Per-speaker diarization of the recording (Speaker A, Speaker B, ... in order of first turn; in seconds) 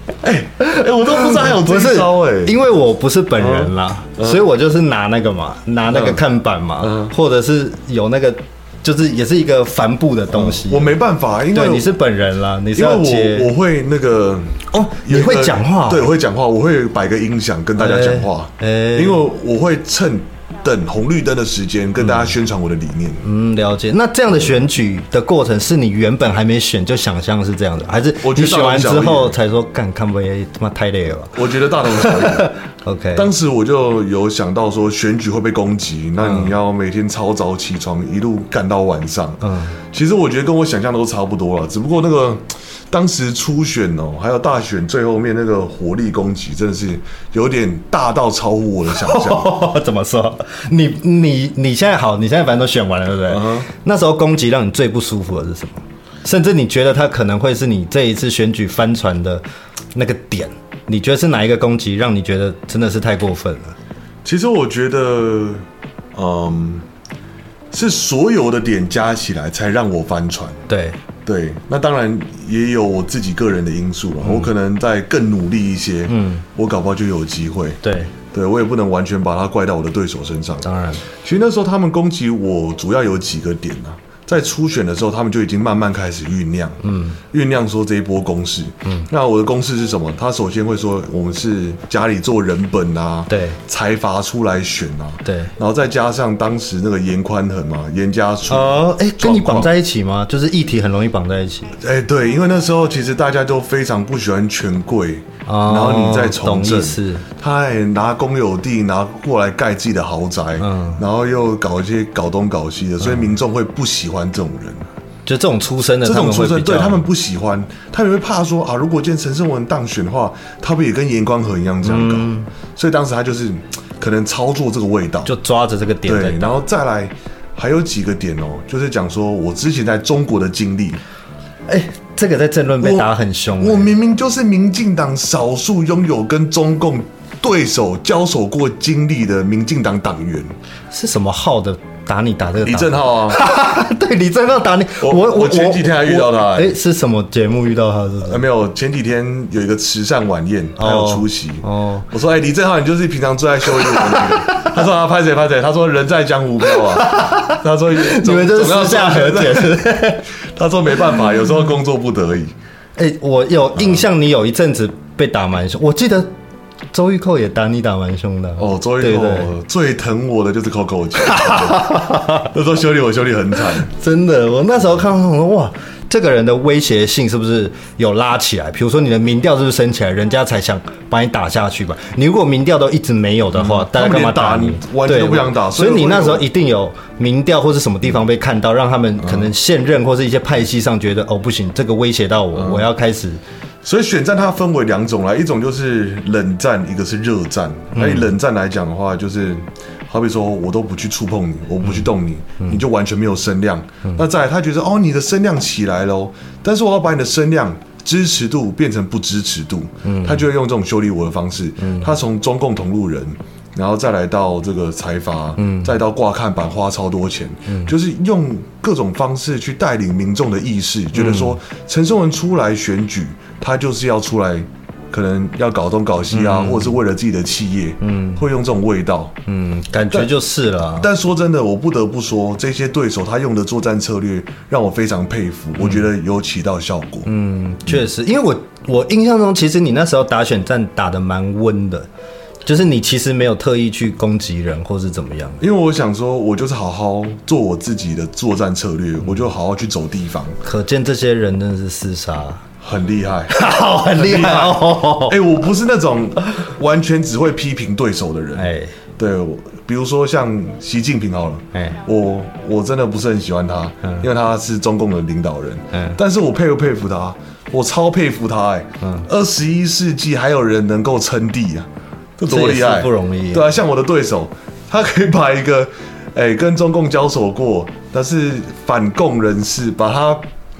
Speaker A: 0.2-2.6, 3.4-4.4, 5.9-6.2, 6.8-7.1, 10.3-11.9, 12.7-23.2, 28.2-29.4, 31.3-32.5, 33.1-49.5, 53.3-53.7, 64.2-66.8, 67.7-70.6, 71.2-77.8, 78.3-86.8, 87.3-99.7, 101.8-114.9, 116.0-125.3, 126.0-131.0, 132.8-140.5, 142.6-143.4, 145.0-146.7, 148.2-159.9, 160.5-162.5, 168.6-173.9, 183.5-186.4, 189.2-189.5, 192.5-192.9, 193.8-229.3, 231.0-237.3, 245.6-250.6, 252.8-253.6, 254.1-280.4
Speaker B: 0.6-10.9, 11.5-13.5, 14.7-16.1, 17.8-19.2, 22.0-22.3, 23.2-33.3, 36.2-36.5, 39.4-39.8, 48.9-59.4, 59.9-63.7, 70.7-71.0, 74.2-74.5, 76.1-76.4, 77.8-78.1, 80.6-81.0, 86.8-87.2, 93.3-93.6, 95.2-95.5, 98.5-101.8, 105.5-107.2, 110.6-111.0, 115.2-117.0, 121.8-122.5, 125.2-126.6, 131.7-133.9, 140.9-148.4, 150.8-152.1, 153.7-154.8, 156.7-160.2, 163.0-166.3, 166.9-169.5, 171.2-172.5, 173.8-193.4, 197.9-198.3, 210.0-210.4, 211.8-212.1, 215.6-215.9, 217.7-217.9, 221.1-221.6, 226.3-226.9, 228.0-228.4, 229.5-231.1, 237.2-242.1, 242.6-245.6, 250.6-252.6, 253.5-255.4, 258.6-258.9, 265.9-266.2, 269.0-269.3, 272.5-273.7